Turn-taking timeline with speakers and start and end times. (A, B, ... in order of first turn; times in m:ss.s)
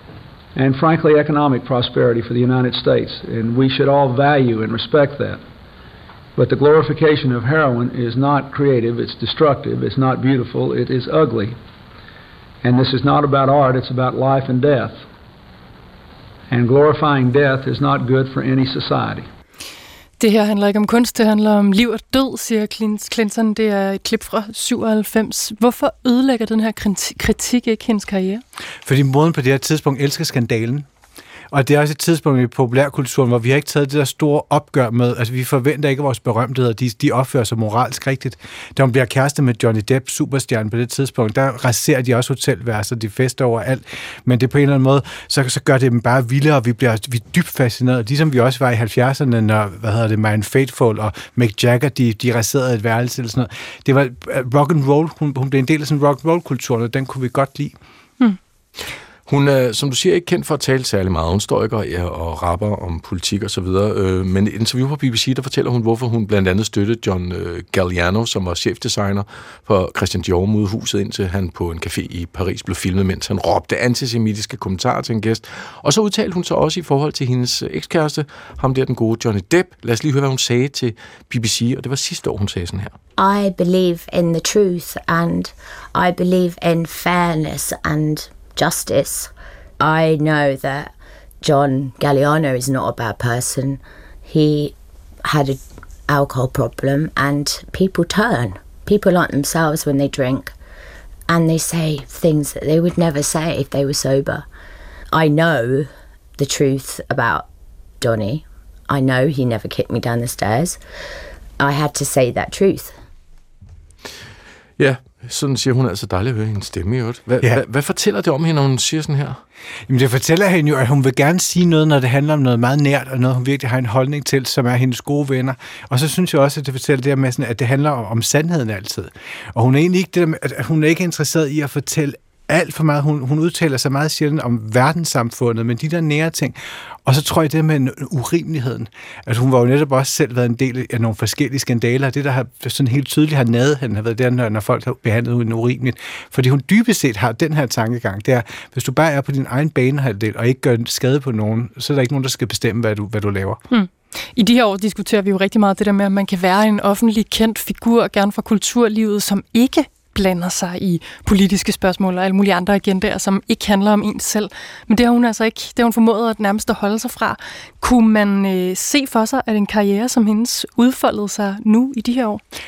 0:00.6-0:05.4 A
0:06.4-0:11.6 A
0:12.6-0:15.0 A
0:16.5-0:19.3 A
0:20.2-0:28.4 B
0:28.8-0:30.9 C
0:31.5-0:57.7 C
0:59.3-1:23.0 D
1:23.2-1:34.7 E
1:35.3-1:40.6 E
1:41.3-1:44.5 E
1:45.1-1:47.5 E
1:48.0-1:50.8 E
1:51.6-1:53.0 E
1:54.8-1:59.4 D
1:57.3-1:57.6 C
1:59.9-2:16.6 C
2:17.0-2:33.6 C
2:33.7-2:52.4 B